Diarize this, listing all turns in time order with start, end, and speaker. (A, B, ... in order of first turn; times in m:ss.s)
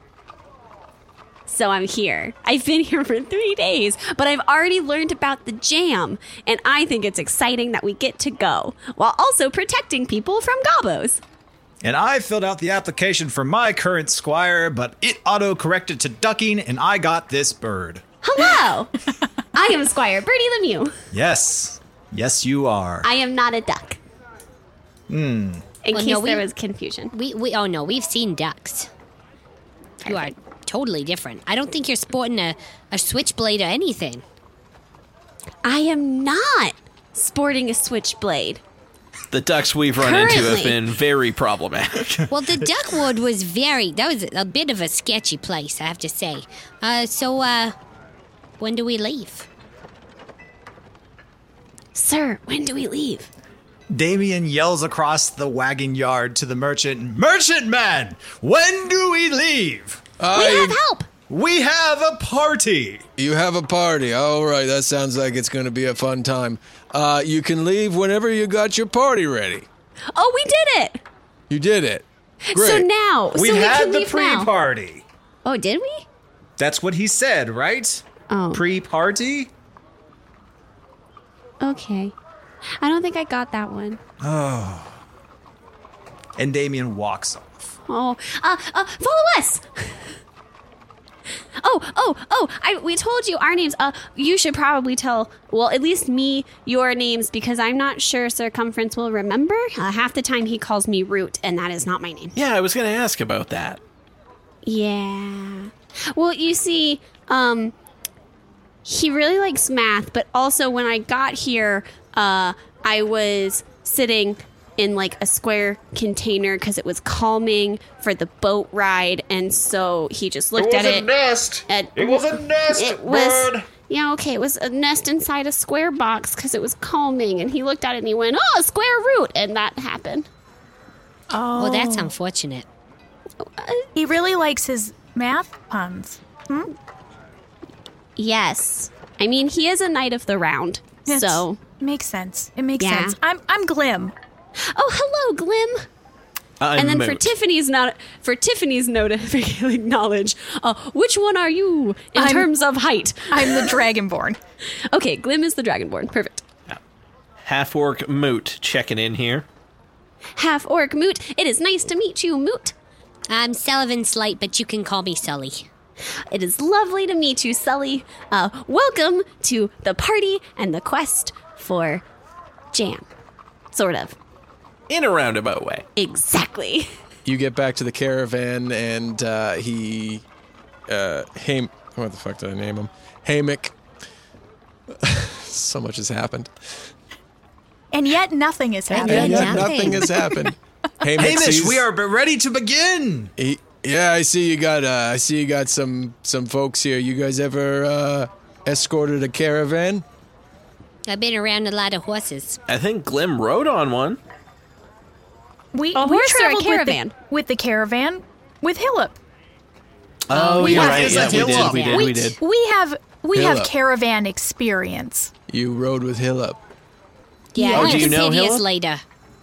0:01.5-0:11.2 A
0:11.8-0:18.0 B
0:18.2-0:18.9 A
0:19.5-0:21.0 A
0:21.1-0:23.1 B
0:23.0-0:24.0 A
0:25.1-0:25.8 B
0:25.8-0:27.1 A
0:25.9-0:26.5 C
0:27.1-0:28.9 C
0:30.0-0:34.2 C
0:35.6-0:38.6 A
0:39.3-0:42.2 D
0:40.0-0:40.8 A
0:42.2-0:42.6 B
0:42.3-0:47.8 C
0:48.6-0:49.5 C
0:52.0-0:53.3 A
0:53.9-1:00.0 B
1:00.2-1:00.8 E
1:00.3-1:01.1 A
1:01.3-1:03.1 B
1:03.2-1:09.7 E
1:10.1-1:11.0 A
1:11.5-1:12.9 E
1:12.5-1:14.5 A
1:13.3-1:15.0 B
1:15.4-1:16.0 A
1:16.6-1:19.5 B
1:18.3-1:18.6 A
1:21.6-1:22.2 A
1:22.7-1:24.0 A
1:24.2-1:25.0 B
1:26.4-1:27.8 B
1:27.9-1:30.1 A
1:31.6-1:42.4 A
1:42.4-1:43.8 D
1:44.6-1:47.8 A
1:48.8-2:10.3 A
2:11.3-2:12.1 F
2:11.6-2:12.7 C
2:13.4-2:13.9 A
2:14.0-2:16.7 F
2:18.2-2:21.6 A
2:21.1-2:24.2 F
2:22.8-2:23.2 A
2:24.6-2:25.9 A
2:26.6-2:27.3 D
2:26.8-2:33.8 A
2:32.2-2:32.5 F
2:33.3-2:34.4 F
2:34.9-2:36.5 A
2:37.4-2:39.5 D
2:40.4-2:42.7 A
2:43.3-2:45.7 C
2:46.3-2:52.0 A
2:52.7-2:53.1 A
2:53.7-2:54.2 A
2:54.9-2:55.9 D
2:56.0-2:56.9 A
2:57.2-3:00.2 E
3:00.9-3:03.8 E
3:05.0-3:06.9 E
3:07.9-3:09.7 F
3:08.9-3:10.2 C
3:09.0-3:11.8 E
3:11.2-3:13.3 B
3:13.4-3:20.0 E
3:21.1-3:22.6 C
3:22.7-3:24.2 D
3:25.7-3:29.2 F
3:26.0-3:27.2 A
3:30.3-3:32.4 D
3:30.3-3:32.1 C
3:30.4-3:32.0 B
3:30.6-3:31.2 F
3:31.8-3:35.3 F
3:33.3-3:33.7 E
3:35.5-3:36.6 E
3:37.5-3:39.0 C
3:37.6-3:38.1 F
3:37.7-3:38.6 D